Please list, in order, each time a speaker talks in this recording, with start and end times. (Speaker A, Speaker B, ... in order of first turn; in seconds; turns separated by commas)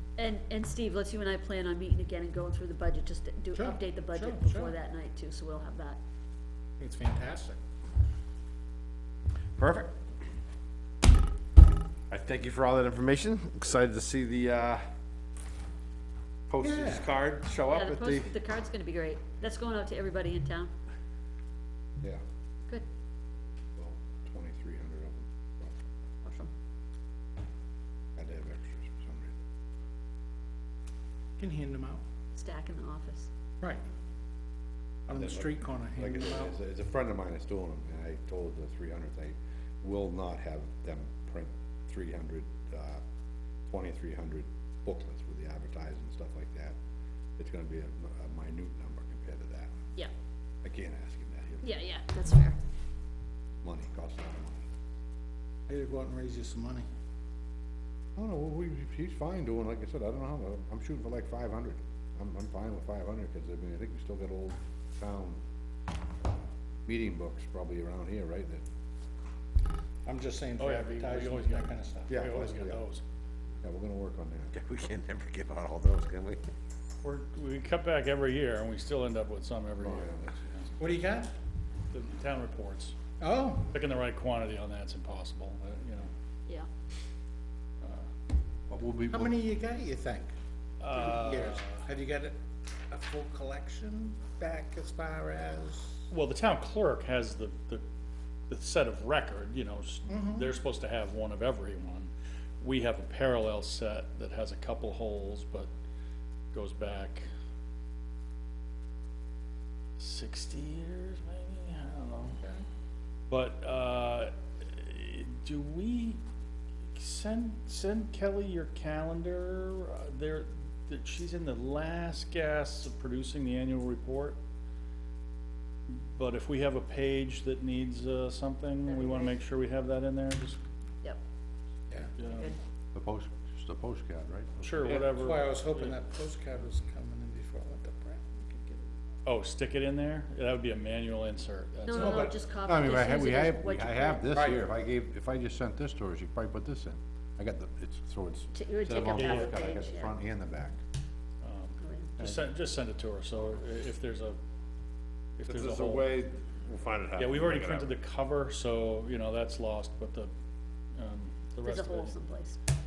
Speaker A: 0.2-6.0, Speaker B: 3.5-4.8, Speaker B: 6.8-7.6, Speaker C: 9.6-9.9, Speaker C: 12.1-14.9, Speaker C: 16.5-18.3, Speaker B: 16.6-17.1, Speaker A: 17.6-20.7, Speaker D: 23.8-25.7, Speaker A: 26.2-26.5, Speaker D: 28.2-29.4, Speaker B: 31.4-32.0, Speaker A: 32.3-33.3, Speaker B: 35.1-36.5, Speaker D: 35.1-43.0, Speaker D: 43.7-46.8, Speaker D: 47.4-49.7, Speaker D: 50.6-51.7, Speaker A: 51.6-52.6, Speaker D: 53.6-54.7, Speaker B: 55.7-56.9, Speaker D: 58.2-65.4, Speaker D: 66.9-68.6, Speaker B: 70.1-72.2, Speaker E: 70.6-73.0, Speaker D: 72.1-72.8, Speaker D: 73.6-74.5, Speaker C: 74.5-76.4, Speaker E: 77.0-81.0, Speaker D: 79.8-80.3, Speaker B: 80.8-81.3, Speaker E: 81.9-83.0, Speaker B: 83.2-83.7, Speaker E: 83.7-86.1, Speaker D: 88.7-89.4, Speaker B: 89.1-90.3, Speaker E: 90.8-91.6, Speaker B: 90.9-92.4, Speaker B: 92.9-96.1, Speaker E: 96.1-97.8, Speaker E: 98.5-105.7, Speaker B: 100.1-100.5, Speaker E: 106.5-107.3, Speaker E: 110.0-112.4, Speaker B: 112.4-112.7, Speaker E: 113.3-116.2, Speaker E: 116.9-124.4, Speaker E: 125.9-130.6, Speaker A: 128.8-129.3, Speaker E: 132.2-132.5, Speaker A: 132.3-132.6, Speaker D: 132.9-135.1, Speaker E: 134.6-136.0, Speaker B: 134.9-138.9, Speaker E: 139.3-142.3, Speaker A: 141.9-144.4, Speaker B: 141.9-142.4, Speaker D: 142.7-150.8, Speaker A: 148.5-150.1, Speaker E: 149.1-149.7, Speaker E: 151.4-154.4, Speaker A: 151.8-152.2, Speaker D: 152.2-152.4, Speaker E: 155.4-156.2, Speaker C: 155.5-157.5, Speaker E: 157.2-160.3, Speaker D: 157.5-157.8, Speaker E: 161.0-162.2, Speaker A: 161.6-162.6